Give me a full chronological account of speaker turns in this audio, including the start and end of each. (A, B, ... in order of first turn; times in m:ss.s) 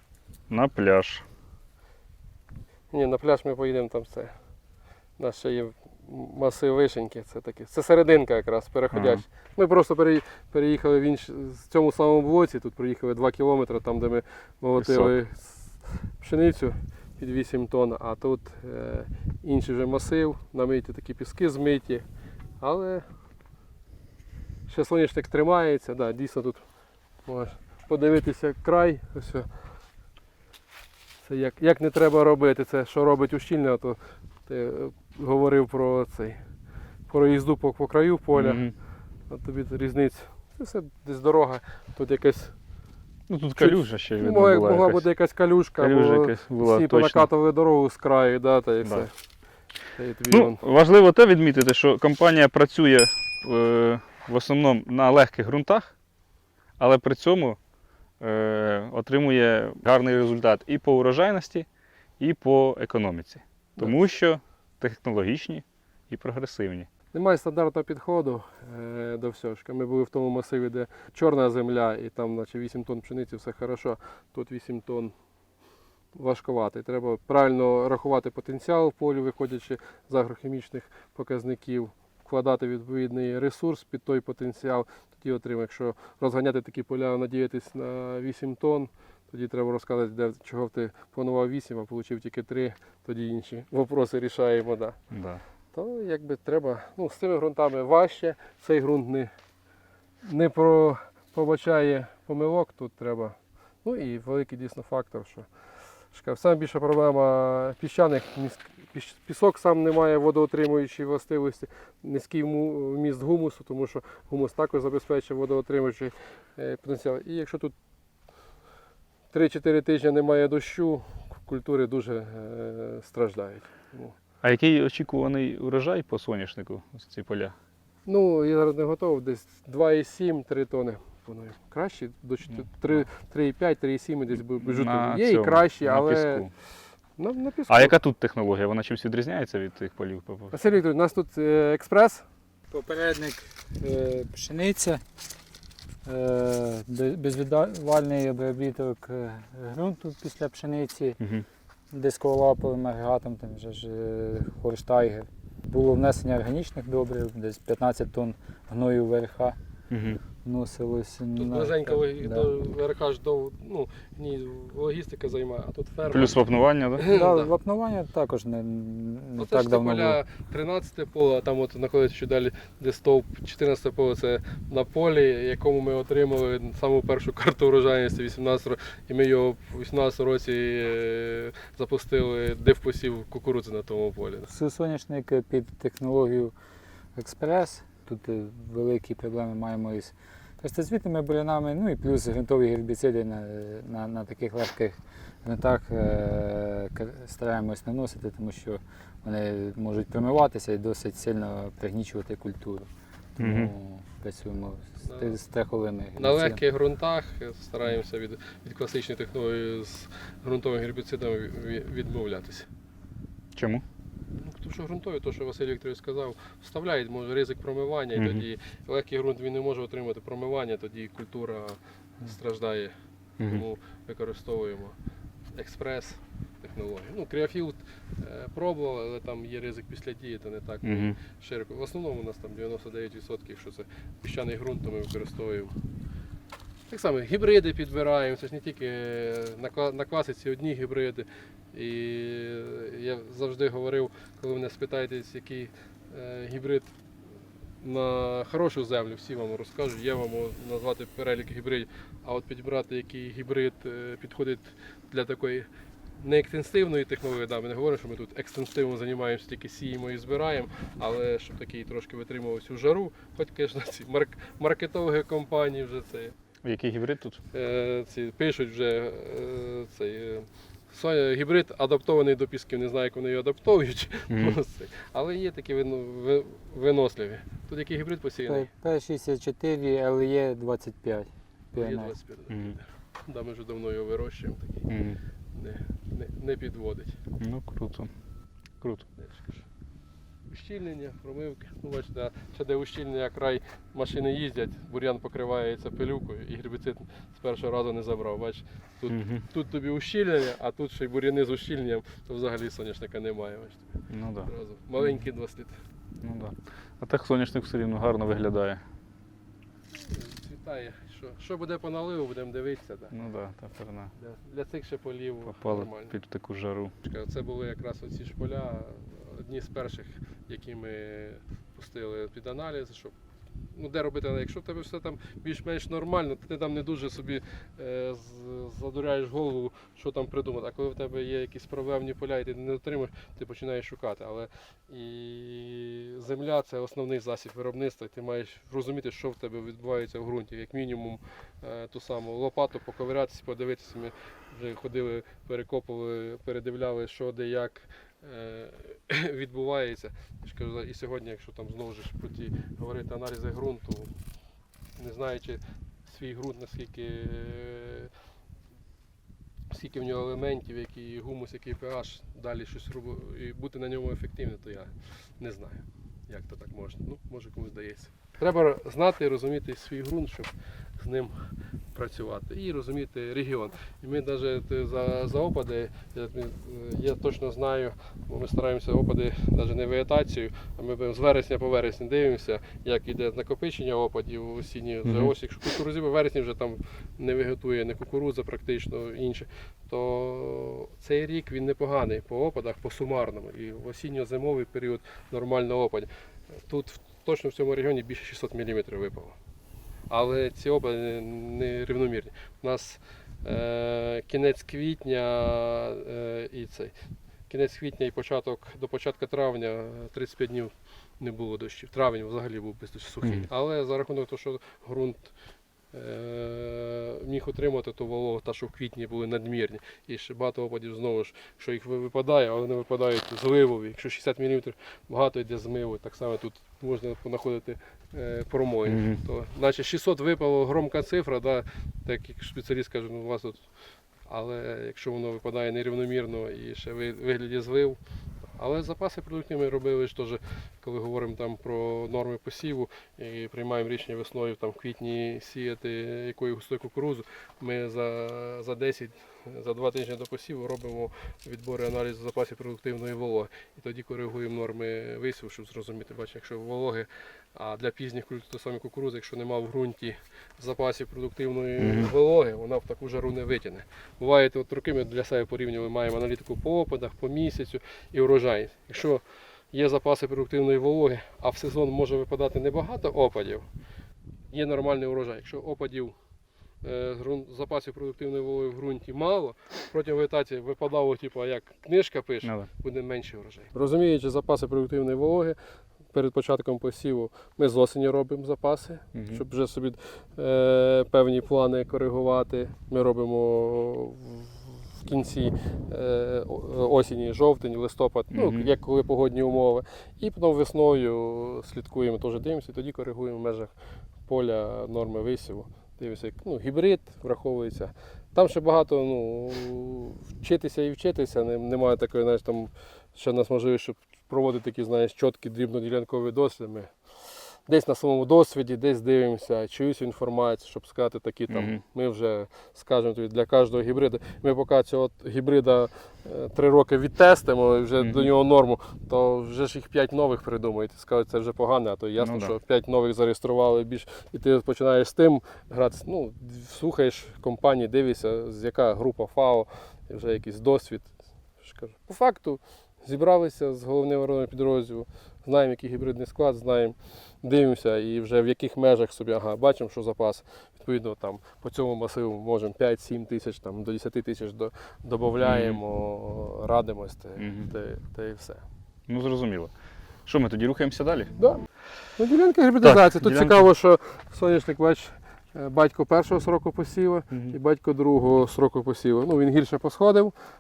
0:00.5-0:01.2 A
0:02.9-0:04.3 B
0:05.2-0:22.0 B
0:08.9-0:09.2 A
0:14.8-0:15.1 A
0:22.6-0:23.0 B
0:24.7-0:26.6 B
0:27.2-0:29.5 B
0:31.2-0:36.4 B
0:37.1-0:38.7 B
0:38.3-0:38.7 A
0:39.3-0:42.5 B
0:43.3-0:45.0 A
0:43.6-0:49.1 B
0:45.8-0:47.2 A
0:49.9-0:50.6 B
0:50.3-0:55.9 A
0:56.8-0:57.6 A
0:58.2-1:01.7 A
1:02.2-1:06.9 A
1:07.1-1:15.1 B
1:16.1-1:35.0 B
1:35.1-1:35.4 A
1:35.7-1:39.3 B
1:40.2-1:45.5 B
1:46.1-1:57.7 B
1:59.3-2:04.1 B
2:04.4-2:07.5 A
2:08.0-2:16.5 B
2:14.3-2:16.5 A
2:17.2-2:17.9 B
2:17.7-2:20.5 A
2:20.5-2:22.2 B
2:22.7-2:25.0 C
2:26.0-2:31.2 C
2:31.2-2:31.4 A
2:31.9-2:39.6 C
2:39.9-2:40.2 A
2:40.4-2:42.5 C
2:41.4-2:47.5 B
2:46.1-2:47.0 A
2:47.1-2:50.2 C
2:49.4-3:04.5 B
3:04.5-3:06.5 C
3:07.1-3:26.6 C
3:23.4-3:23.7 A
3:25.0-3:25.4 B
3:26.2-3:32.7 B
3:33.5-3:33.8 A
3:34.4-3:45.0 B
3:38.2-3:38.4 A
3:45.5-3:55.8 B
3:50.8-3:51.2 A
3:56.9-4:06.9 B
4:07.8-4:26.3 B
4:26.6-4:27.4 A
4:27.5-4:38.7 B
4:34.3-4:34.6 A
4:38.4-4:42.1 C
4:41.7-4:44.9 B
4:42.5-4:42.8 A
4:44.9-4:45.2 A
4:45.5-4:47.2 B
4:47.4-4:48.1 A
4:48.8-4:49.0 A
4:49.2-4:49.6 B
4:50.5-5:05.8 B
4:59.1-4:59.4 A
5:04.1-5:05.3 A
5:06.2-5:08.8 A
5:10.0-5:13.1 B
5:13.1-5:14.1 A
5:14.2-5:16.1 B
5:15.5-5:16.9 A
5:17.0-5:23.1 B
5:23.7-5:54.1 B
5:55.0-5:58.1 B
5:59.7-6:39.4 B
6:25.0-6:25.3 A
6:40.1-6:46.9 B
6:47.5-6:55.3 B
6:53.2-6:53.5 A
6:55.9-7:13.6 B
7:08.8-7:09.2 A
7:14.2-7:18.0 B
7:18.5-7:53.7 B
7:41.8-7:42.1 A
7:54.5-7:56.1 B
7:56.8-8:05.6 B
8:02.4-8:02.7 A
8:06.1-8:23.7 B
8:09.1-8:09.4 A
8:18.3-8:18.7 A
8:24.3-8:36.9 B
8:37.5-9:18.6 B
8:41.5-8:41.8 A
8:48.0-8:48.3 A
8:52.2-8:52.6 A
9:15.4-9:15.8 A
9:17.4-9:17.7 A
9:19.1-9:19.7 A
9:20.2-9:21.3 A
9:21.4-9:21.6 B
9:22.2-9:30.3 B
9:22.8-9:23.6 A